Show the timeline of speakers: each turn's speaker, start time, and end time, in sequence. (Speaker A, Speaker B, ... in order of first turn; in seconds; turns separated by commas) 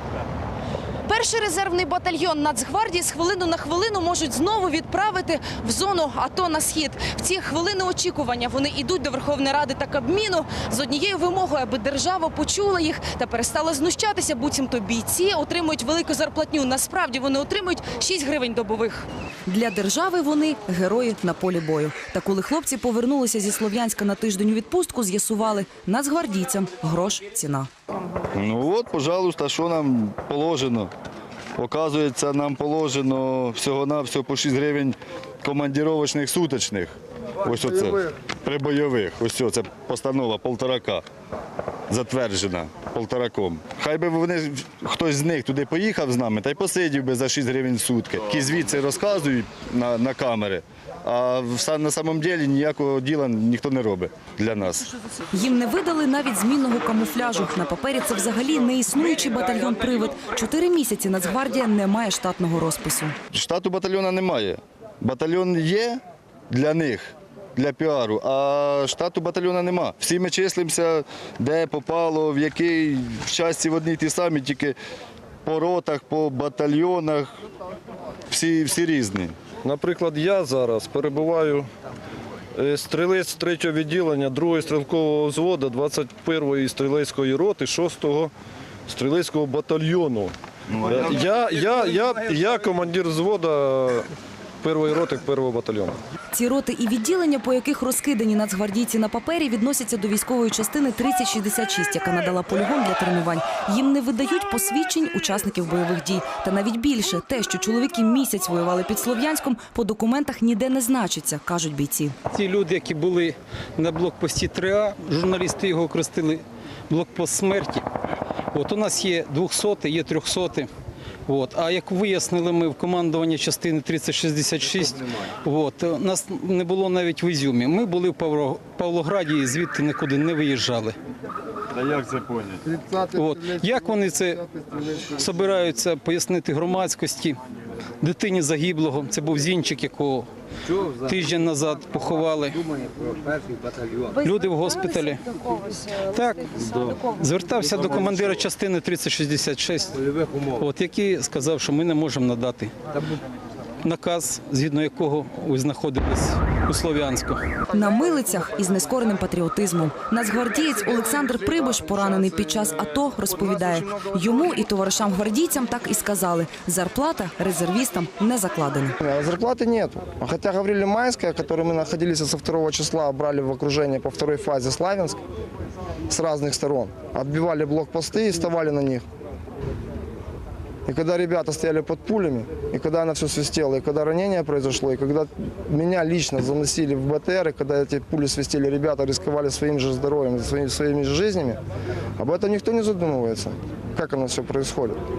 Speaker A: 1.1-19.0, Speaker B: 19.5-27.7, Speaker C: 28.3-30.9, Speaker C: 31.6-41.0, Speaker C: 41.9-54.9, Speaker B: 55.3-63.1, Speaker C: 63.3-74.8, Speaker C: 75.4-77.3, Speaker C: 78.3-79.4, Speaker D: 79.6-81.7, Speaker D: 82.5-88.3, Speaker D: 88.9-94.1, Speaker D: 94.6-96.0, Speaker B: 96.3-112.1, Speaker E: 112.3-117.8, Speaker E: 118.5-120.7, Speaker E: 121.3-130.9, Speaker C: 131.7-132.7, Speaker E: 133.1-137.4, Speaker E: 138.0-140.3, Speaker E: 140.9-142.7, Speaker E: 144.1-152.7, Speaker E: 153.8-157.4, Speaker B: 157.7-169.0, Speaker F: 169.0-175.2, Speaker F: 176.1-179.0, Speaker F: 180.8-191.6, Speaker F: 192.2-195.0